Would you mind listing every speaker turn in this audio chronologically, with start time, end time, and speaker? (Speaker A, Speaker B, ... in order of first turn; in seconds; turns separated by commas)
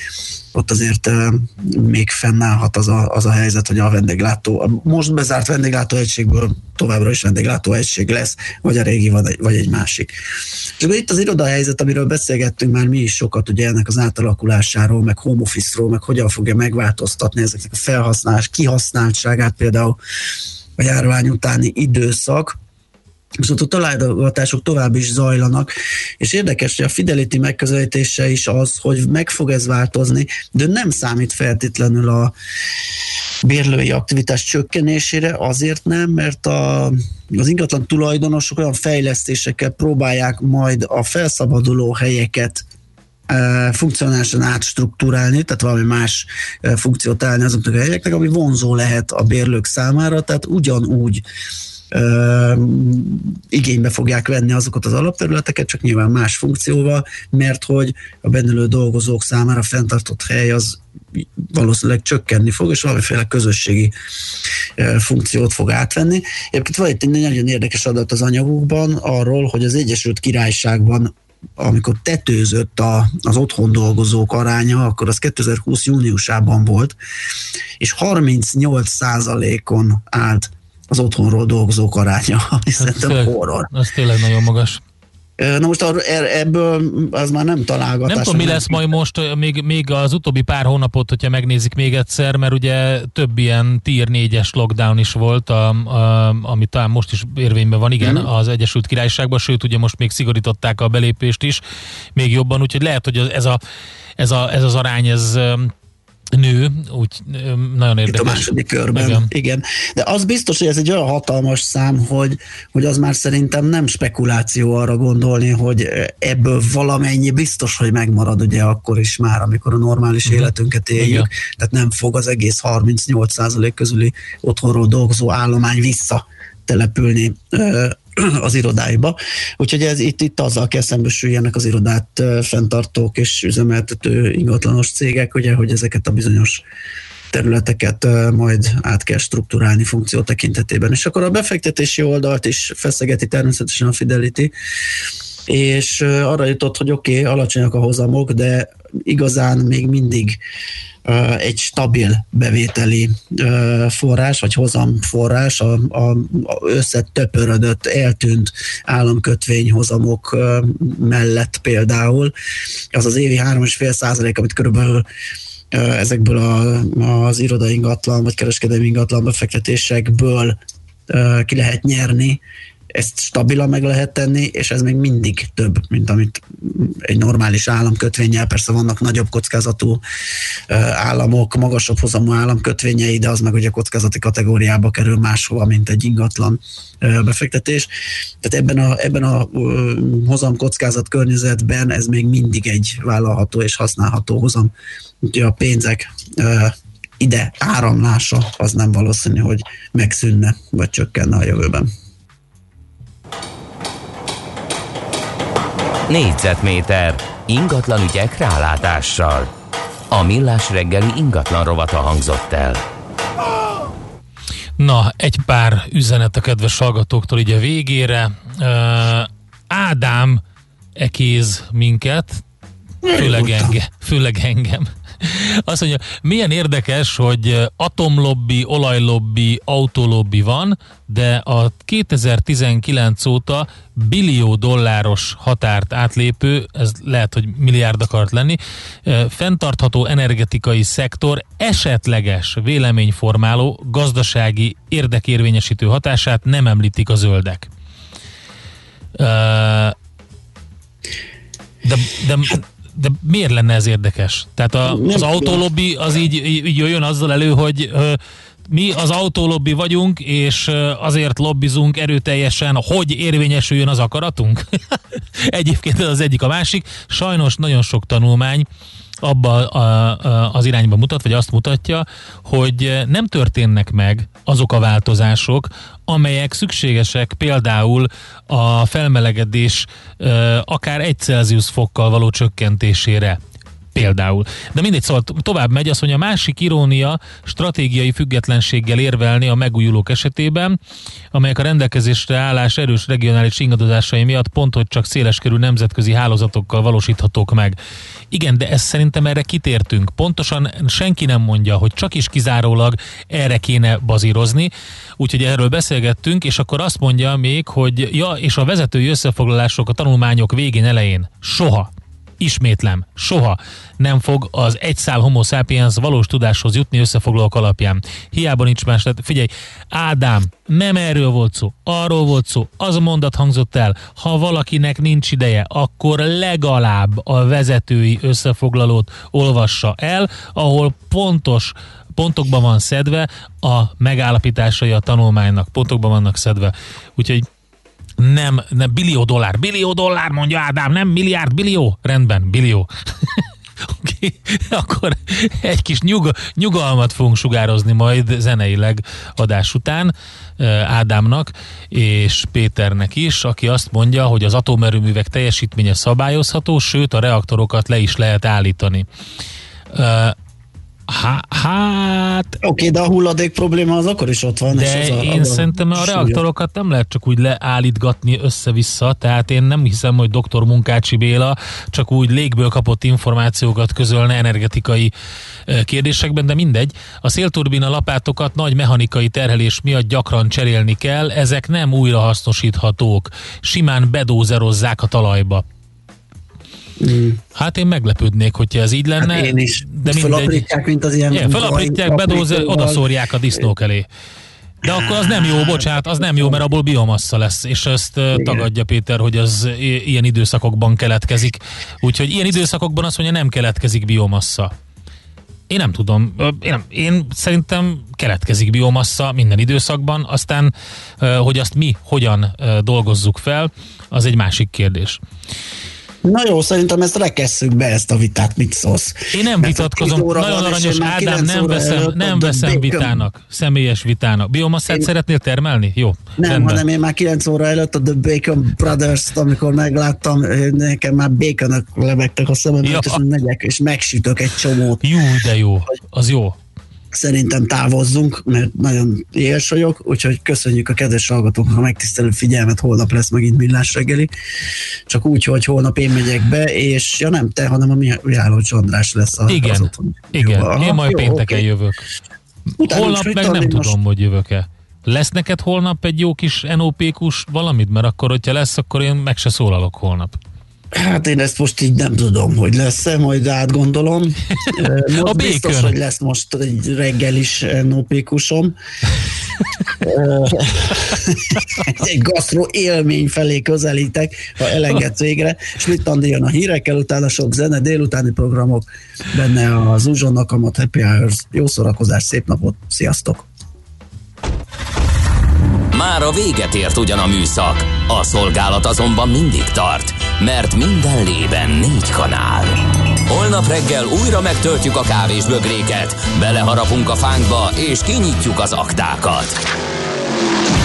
Speaker A: 0.5-10.1, Speaker A: 10.8-20.0, Speaker A: 20.8-22.6, Speaker A: 23.4-32.3, Speaker A: 33.4-42.6, Speaker A: 43.3-51.2, Speaker A: 51.9-60.8, Speaker A: 61.4-63.9, Speaker A: 64.8-77.0, Speaker A: 77.8-83.7, Speaker B: 82.8-84.8, Speaker A: 85.4-88.9, Speaker B: 88.1-101.6, Speaker A: 98.0-98.3, Speaker B: 102.2-103.6, Speaker B: 104.2-105.7, Speaker B: 106.3-109.3, Speaker A: 108.1-136.6, Speaker B: 120.3-121.3, Speaker A: 137.3-144.5, Speaker A: 145.5-150.4, Speaker A: 151.1-162.3, Speaker A: 162.9-165.1, Speaker A: 165.7-170.6, Speaker A: 171.1-172.4, Speaker A: 172.9-180.0, Speaker A: 180.7-187.9, Speaker A: 188.4-194.7, Speaker A: 195.2-201.9, Speaker C: 206.1-209.5, Speaker C: 210.1-212.8, Speaker B: 214.8-220.4, Speaker B: 221.0-222.4, Speaker A: 223.0-223.8, Speaker B: 223.1-247.7, Speaker B: 249.2-249.9, Speaker B: 251.8-268.7, Speaker A: 254.9-255.6, Speaker B: 269.2-283.4, Speaker B: 283.9-290.8, Speaker B: 291.3-297.8, Speaker B: 298.3-337.4, Speaker B: 338.2-359.1, Speaker B: 359.9-360.4, Speaker B: 361.1-362.6, Speaker A: 362.6-366.4, Speaker B: 364.7-375.1, Speaker B: 375.7-385.6, Speaker A: 387.0-387.4, Speaker B: 387.6-390.7, Speaker A: 389.2-393.0, Speaker B: 391.3-394.1, Speaker B: 394.8-404.7, Speaker A: 394.8-396.6, Speaker A: 398.3-398.7, Speaker B: 405.7-415.2, Speaker A: 416.2-423.2, Speaker B: 419.3-426.8, Speaker A: 426.4-435.1, Speaker B: 432.8-433.2, Speaker B: 435.0-436.6, Speaker A: 437.1-444.3, Speaker A: 445.1-451.6, Speaker B: 449.5-452.0, Speaker A: 452.8-454.0, Speaker B: 452.8-460.4, Speaker A: 460.9-468.7, Speaker B: 464.7-466.0, Speaker A: 470.0-483.5, Speaker C: 485.9-499.6